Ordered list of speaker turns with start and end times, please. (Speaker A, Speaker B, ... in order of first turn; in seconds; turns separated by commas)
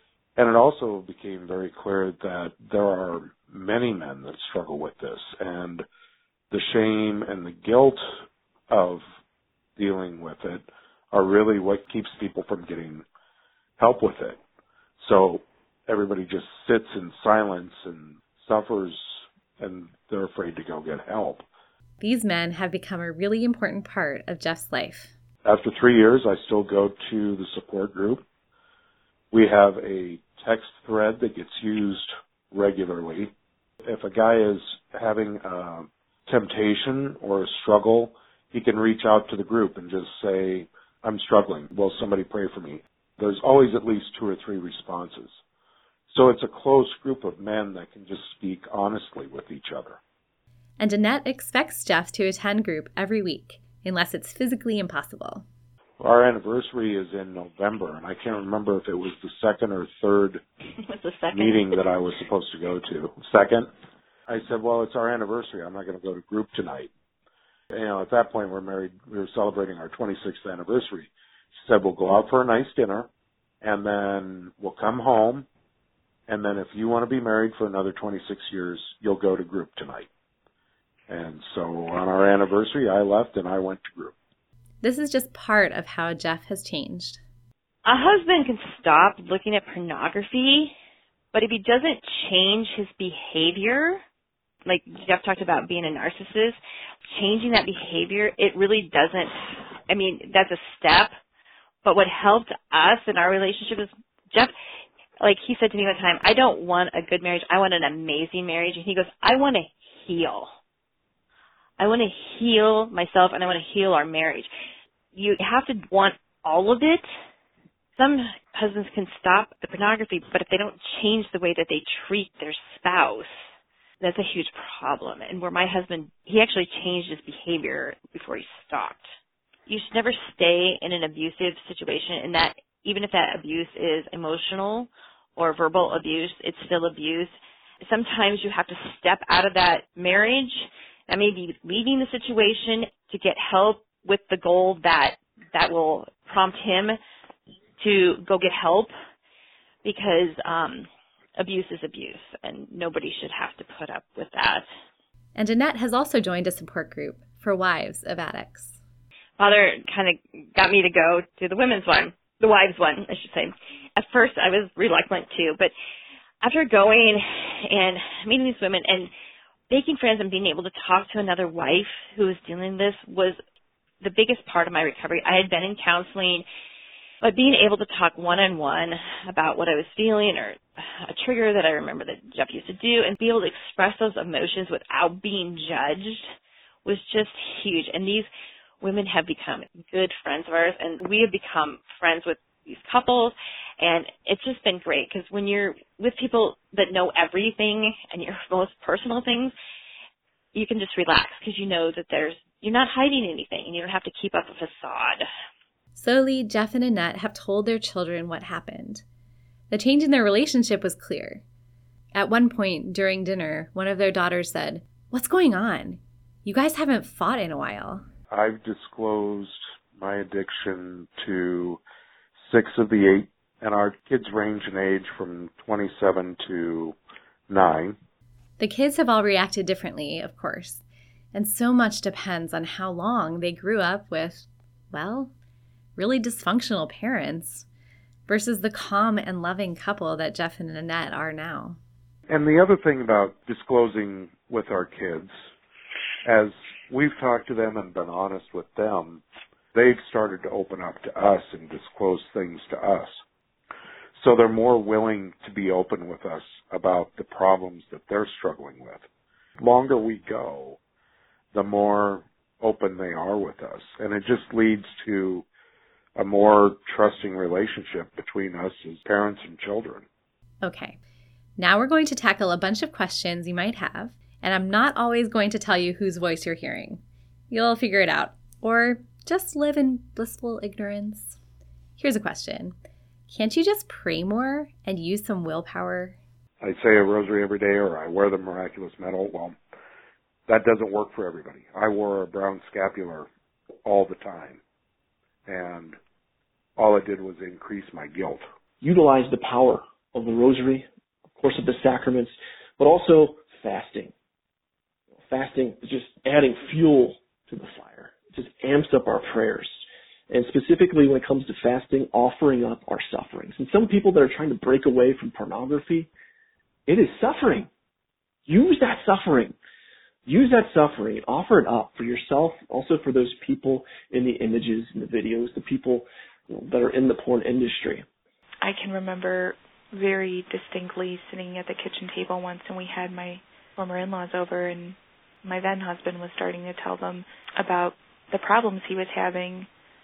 Speaker A: 0.4-5.8, Speaker A: 6.5-8.0, Speaker A: 8.7-9.0, Speaker A: 9.8-13.1, Speaker A: 13.8-14.4, Speaker A: 15.0-19.0, Speaker A: 19.6-21.4, Speaker B: 22.0-25.1, Speaker A: 25.4-28.2, Speaker A: 29.3-33.3, Speaker A: 33.8-45.4, Speaker A: 46.1-50.0, Speaker B: 50.8-55.5, Speaker A: 56.0-60.4, Speaker C: 60.9-61.7, Speaker A: 61.3-63.7, Speaker A: 64.3-66.9, Speaker A: 67.7-73.1, Speaker A: 73.6-75.5, Speaker A: 76.3-80.1, Speaker A: 81.1-84.1, Speaker B: 84.8-87.2, Speaker C: 87.8-90.7, Speaker C: 91.3-94.0, Speaker C: 94.7-96.6, Speaker C: 97.2-99.3, Speaker C: 99.9-101.1, Speaker C: 101.8-104.5, Speaker C: 105.2-110.5, Speaker C: 111.8-114.5, Speaker C: 115.2-117.0, Speaker C: 118.0-123.4, Speaker C: 124.0-129.1, Speaker C: 129.7-137.3, Speaker C: 137.8-147.0, Speaker C: 147.8-148.9, Speaker C: 149.8-154.7, Speaker B: 155.4-158.8, Speaker C: 159.4-165.7, Speaker C: 166.4-169.1, Speaker C: 169.7-173.4, Speaker C: 174.0-176.4, Speaker C: 177.2-186.3, Speaker C: 186.8-188.3, Speaker C: 188.8-199.5, Speaker C: 200.5-205.2, Speaker B: 206.0-209.0, Speaker B: 209.7-211.4, Speaker B: 212.2-218.0, Speaker A: 218.3-221.8, Speaker A: 222.4-227.0, Speaker A: 227.5-228.0, Speaker B: 228.6-230.8, Speaker B: 231.3-235.3, Speaker B: 236.0-237.7, Speaker B: 238.3-241.8, Speaker A: 242.3-245.3, Speaker A: 246.2-249.2, Speaker A: 249.7-253.2, Speaker A: 254.2-259.1, Speaker A: 259.6-260.8, Speaker A: 261.5-265.5, Speaker A: 266.2-270.1, Speaker B: 270.6-271.0, Speaker B: 271.6-281.4, Speaker B: 282.0-282.7, Speaker B: 283.3-286.2, Speaker A: 286.6-289.6, Speaker A: 290.5-293.3, Speaker A: 293.9-294.6, Speaker A: 295.5-296.0, Speaker A: 296.8-298.4, Speaker D: 298.8-304.1, Speaker D: 305.3-316.1, Speaker D: 316.9-317.7, Speaker D: 318.5-319.6, Speaker D: 320.3-328.1, Speaker E: 328.6-339.7